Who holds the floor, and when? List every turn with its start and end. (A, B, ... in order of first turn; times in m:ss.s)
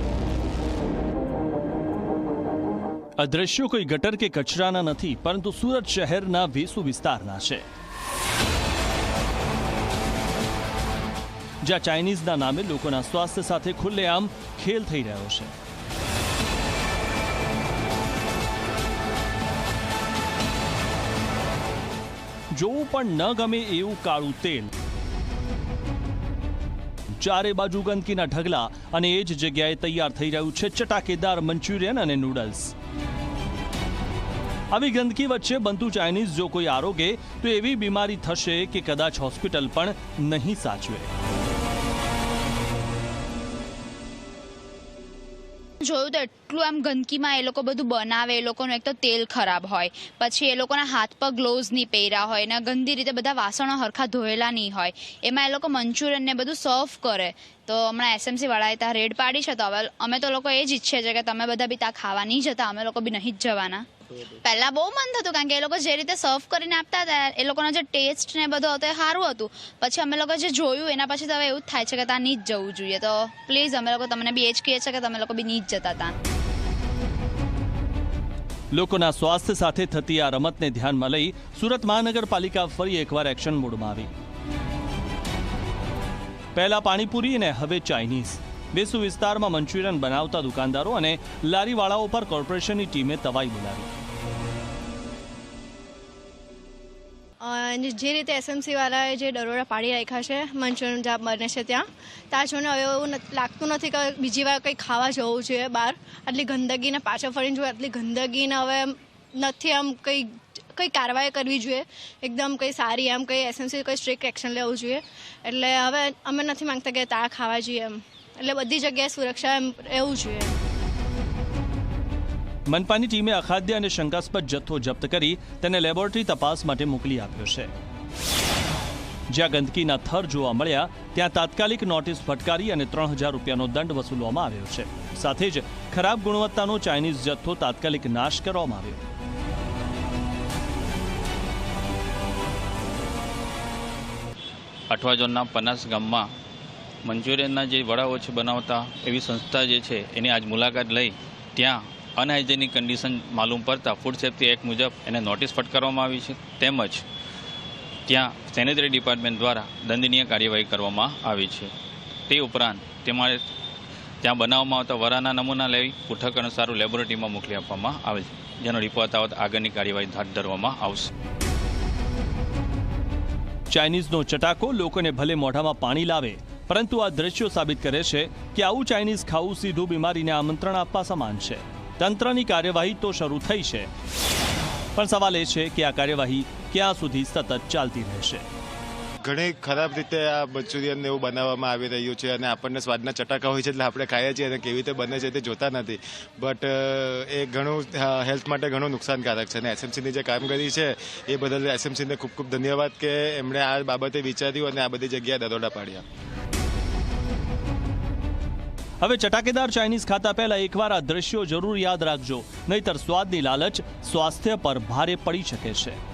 0:03.2-0:07.6 A
0:11.6-0:15.5 A
0:22.5-0:24.7 A
0:27.2-0:32.7 A
0:34.7-0:41.1 A
0:45.8-1:03.9 B
1:04.4-1:16.1 B
1:18.7-1:24.1 A
1:26.6-1:33.9 A
1:37.4-2:00.5 C
2:02.7-2:07.7 A
2:09.3-2:19.0 A
2:24.9-2:26.3 D
2:27.0-2:37.0 D
2:38.1-2:41.7 D
2:42.3-2:43.5 D
2:44.2-2:51.1 D
2:53.7-3:03.9 A
3:05.0-3:08.4 A
3:09.2-3:26.0 E
3:29.0-3:36.0 A